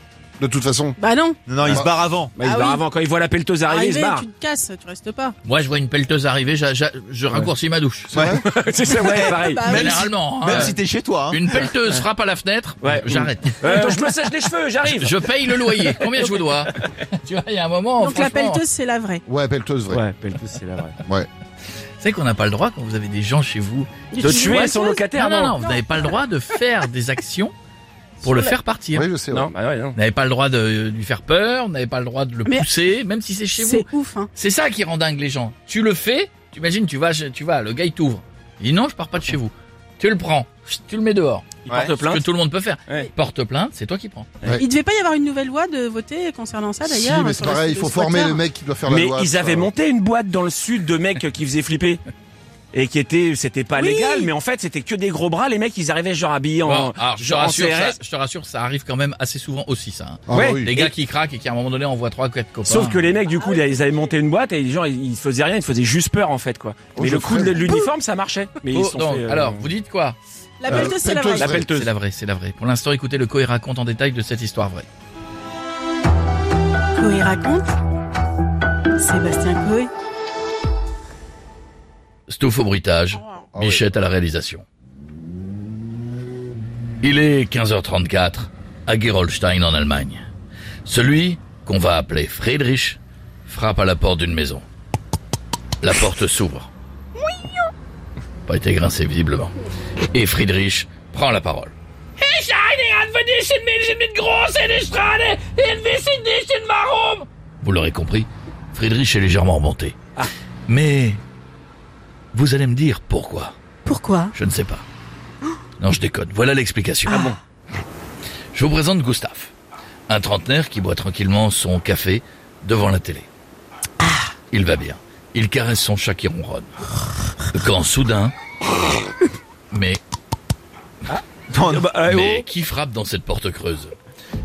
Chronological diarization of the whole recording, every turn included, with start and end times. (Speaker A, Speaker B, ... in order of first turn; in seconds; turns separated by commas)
Speaker A: 0.4-1.0, Speaker B: 1.0-1.4, Speaker C: 1.5-2.3, Speaker A: 1.6-2.0, Speaker D: 2.4-4.3, Speaker B: 2.4-2.8, Speaker B: 3.7-5.4, Speaker E: 5.4-8.2, Speaker C: 8.1-8.4, Speaker A: 8.1-8.4, Speaker D: 8.4-9.6, Speaker B: 8.9-10.1, Speaker C: 9.0-11.7, Speaker E: 9.7-13.9, Speaker D: 12.8-16.4, Speaker E: 14.9-18.6, Speaker B: 18.0-19.2, Speaker A: 19.2-20.0, Speaker D: 19.9-21.0, Speaker A: 21.0-21.3, Speaker E: 22.0-24.0, Speaker B: 24.1-25.1, Speaker D: 24.2-25.6, Speaker E: 25.1-27.5, Speaker E: 28.2-29.1, Speaker B: 28.2-28.5, Speaker A: 28.9-29.5, Speaker D: 29.3-30.0, Speaker E: 29.9-44.3, Speaker B: 33.6-34.3, Speaker D: 41.6-42.3, Speaker B: 44.5-48.4, Speaker A: 46.8-49.7, Speaker D: 48.9-52.0, Speaker D: 52.7-58.0, Speaker B: 53.8-54.3, Speaker E: 56.6-63.1, Speaker A: 60.3-60.7, Speaker D: 60.3-60.9, Speaker D: 62.7-69.7, Speaker B: 63.4-63.8, Speaker A: 67.0-67.8, Speaker E: 68.7-70.2, Speaker B: 70.6-71.6, Speaker A: 70.7-71.8, Speaker D: 70.7-71.9, Speaker E: 71.6-74.9, Speaker B: 76.9-77.8, Speaker B: 79.0-79.9, Speaker E: 82.3-84.7, Speaker B: 83.2-83.5, Speaker A: 83.5-83.9, Speaker E: 87.0-90.2, Speaker E: 90.8-94.7, Speaker E: 95.8-96.7, Speaker E: 98.5-99.5, Speaker E: 100.1-110.0, Speaker E: 110.7-111.2, Speaker E: 112.3-113.6, Speaker B: 113.9-114.3, Speaker E: 114.3-114.9, Speaker E: 115.8-117.3, Speaker E: 118.5-119.5, Speaker E: 120.1-123.3, Speaker B: 124.0-124.3, Speaker E: 124.5-126.7, Speaker E: 127.5-128.3, Speaker E: 129.7-130.0, Speaker D: 131.1-132.4, Speaker C: 131.6-131.8, Speaker E: 131.9-133.9